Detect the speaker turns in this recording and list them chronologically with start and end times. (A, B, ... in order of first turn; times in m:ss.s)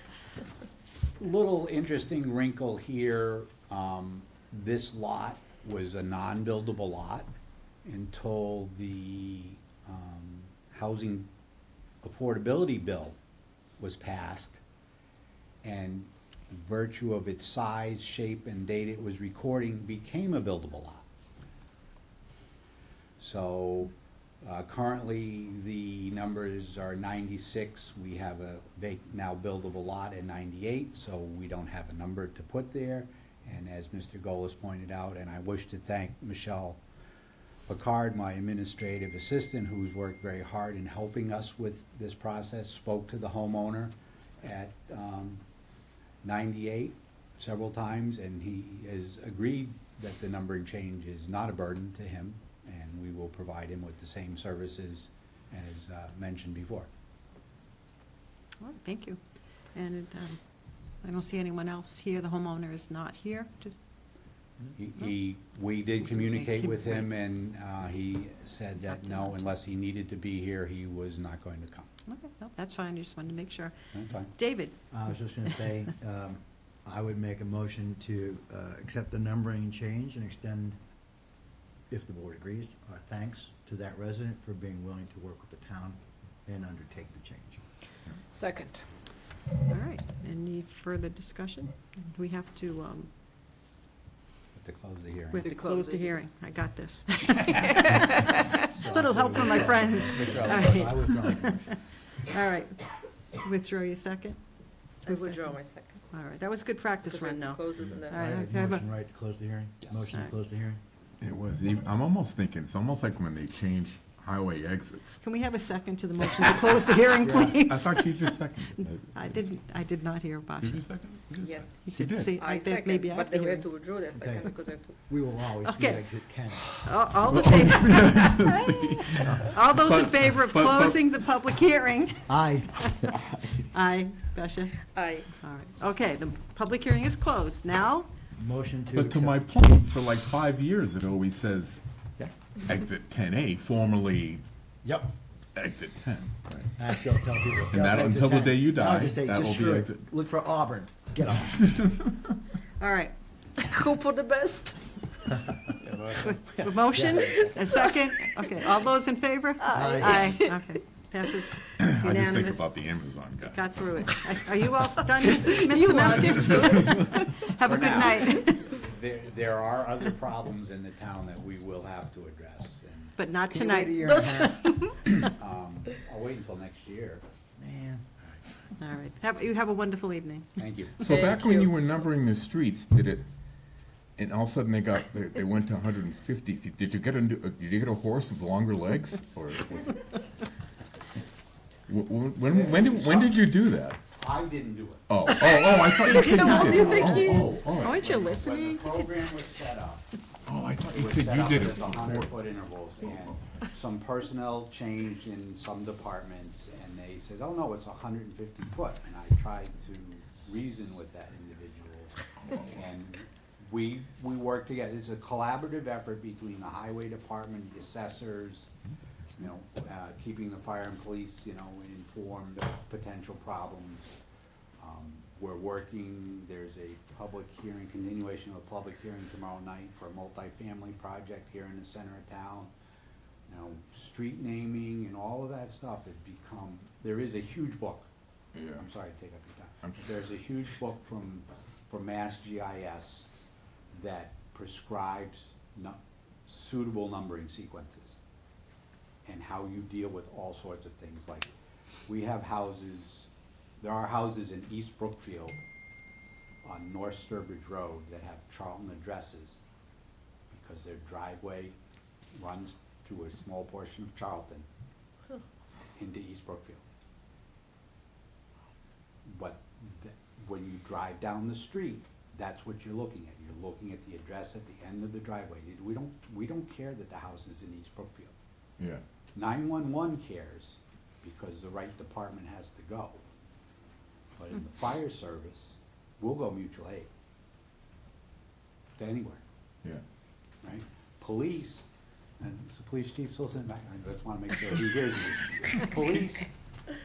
0:01.2-0:07.3 A
0:07.8-0:11.3 A
0:12.0-0:13.2 A
0:13.8-0:14.6 A
0:15.6-0:21.0 A
0:23.2-0:36.8 A
0:37.7-0:45.4 A
0:46.2-0:56.9 A
0:58.6-0:59.2 B
0:59.7-1:00.4 B
1:01.0-1:03.7 B
1:04.7-1:11.9 A
1:06.0-1:07.1 B
1:08.8-1:09.4 B
1:12.1-1:13.7 B
1:13.9-1:14.3 A
1:14.3-1:14.8 B
1:14.9-1:20.8 C
1:21.9-1:27.6 C
1:28.3-1:28.8 D
1:29.7-1:33.1 B
1:34.5-1:35.4 A
1:35.3-1:44.4 B
1:35.4-1:36.2 D
1:37.5-1:38.5 D
1:38.7-1:41.7 C
1:40.2-1:41.2 D
1:45.0-1:46.0 D
1:45.0-1:45.6 B
1:46.1-1:48.8 B
1:47.0-1:48.3 D
1:48.1-1:50.8 C
1:51.2-1:55.2 E
1:55.2-2:00.8 B
1:57.6-1:59.2 E
2:00.6-2:02.4 E
2:01.4-2:01.8 D
2:01.9-2:03.6 B
2:02.4-2:05.0 D
2:04.1-2:04.5 C
2:05.1-2:06.8 C
2:05.6-2:06.0 B
2:06.8-2:08.5 B
2:07.3-2:11.0 E
2:09.4-2:18.1 B
2:12.3-2:12.7 C
2:14.9-2:15.3 D
2:18.4-2:19.5 C
2:18.9-2:24.4 E
2:24.8-2:25.1 C
2:25.5-2:26.7 E
2:26.8-2:31.6 C
2:27.7-2:30.1 E
2:31.4-2:32.3 E
2:32.8-2:33.1 B
2:33.6-2:35.2 D
2:35.9-2:36.1 D
2:36.2-2:42.7 B
2:36.9-2:37.5 C
2:37.5-2:37.8 D
2:39.6-2:40.8 D
2:39.7-2:40.4 C
2:41.8-2:43.7 E
2:43.4-2:48.7 B
2:45.7-2:46.2 D
2:46.5-2:47.0 E
2:46.9-2:53.1 A
2:53.2-2:54.2 B
2:53.5-2:54.6 C
2:54.0-2:55.0 D
2:55.1-2:57.2 A
2:57.6-2:58.0 C
2:58.8-3:00.6 B
3:00.6-3:01.1 A
3:01.0-3:03.3 E
3:01.0-3:01.7 D
3:04.2-3:10.1 E
3:11.9-3:14.0 E
3:12.5-3:13.5 A
3:14.1-3:15.4 A
3:15.1-3:18.0 E
3:16.0-3:19.3 B
3:16.0-3:17.4 D
3:16.3-3:20.1 A
3:20.4-3:22.4 E
3:20.8-3:38.7 A
3:39.4-3:44.1 A
3:44.8-3:52.7 A
3:53.5-3:58.1 A
3:58.5-3:58.8 E
3:58.8-4:03.3 A
4:03.9-4:08.2 A
4:09.2-4:11.5 A
4:12.1-4:15.6 A
4:16.6-4:19.6 A
4:20.5-4:21.8 A
4:22.3-4:24.7 A
4:25.9-4:26.8 A
4:29.2-4:38.3 A
4:39.3-4:43.2 A
4:44.4-4:47.1 A
4:49.0-4:49.4 A
4:50.6-4:51.9 A
4:52.4-4:56.5 A